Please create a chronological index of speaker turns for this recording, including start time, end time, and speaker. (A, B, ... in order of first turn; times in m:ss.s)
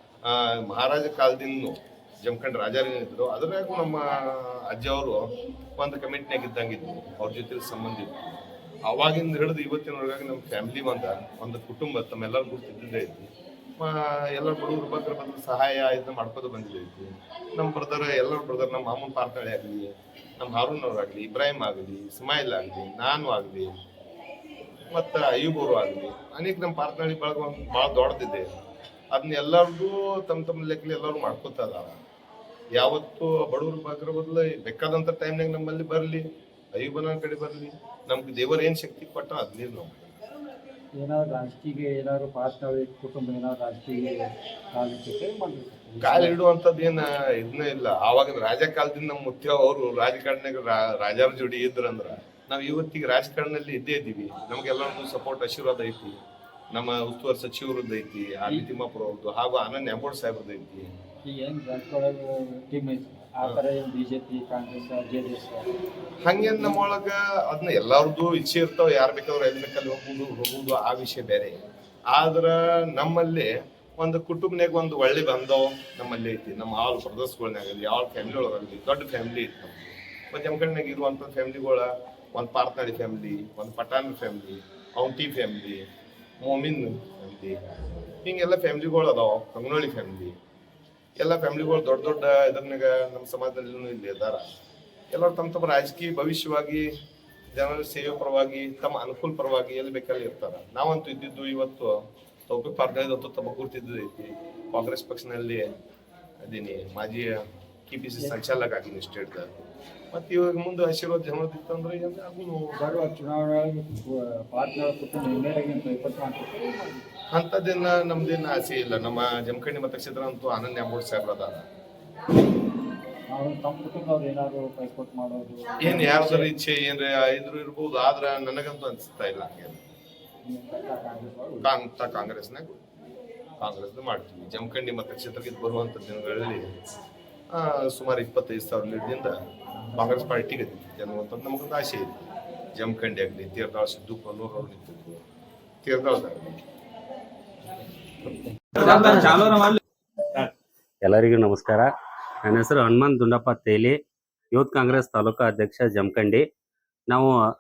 0:00.2-0:23.7 A
0:24.9-0:28.5 A
0:29.1-0:31.9 A
0:32.8-0:40.1 A
0:41.0-0:46.4 B
0:46.0-0:56.2 A
0:56.7-1:00.9 A
1:01.2-1:05.7 B
1:06.2-1:11.6 A
1:12.1-1:25.8 A
1:26.4-1:30.3 A
1:31.2-1:34.4 A
1:35.1-1:36.9 A
1:37.5-1:41.9 A
1:42.5-1:45.6 A
1:46.4-1:47.3 A
1:47.9-1:49.5 A
1:50.1-1:52.7 A
1:52.8-1:57.1 B
1:57.3-2:01.6 A
2:03.3-2:06.5 B
2:05.8-2:09.9 A
2:10.4-2:11.7 B
2:11.6-2:12.8 A
2:13.6-2:16.7 A
2:17.5-2:19.3 A
2:19.9-2:22.2 A
2:22.7-2:25.2 A
2:25.8-2:26.6 A
2:28.8-2:29.7 C
2:31.0-2:31.9 C
2:32.4-2:34.0 C
2:34.5-2:36.4 C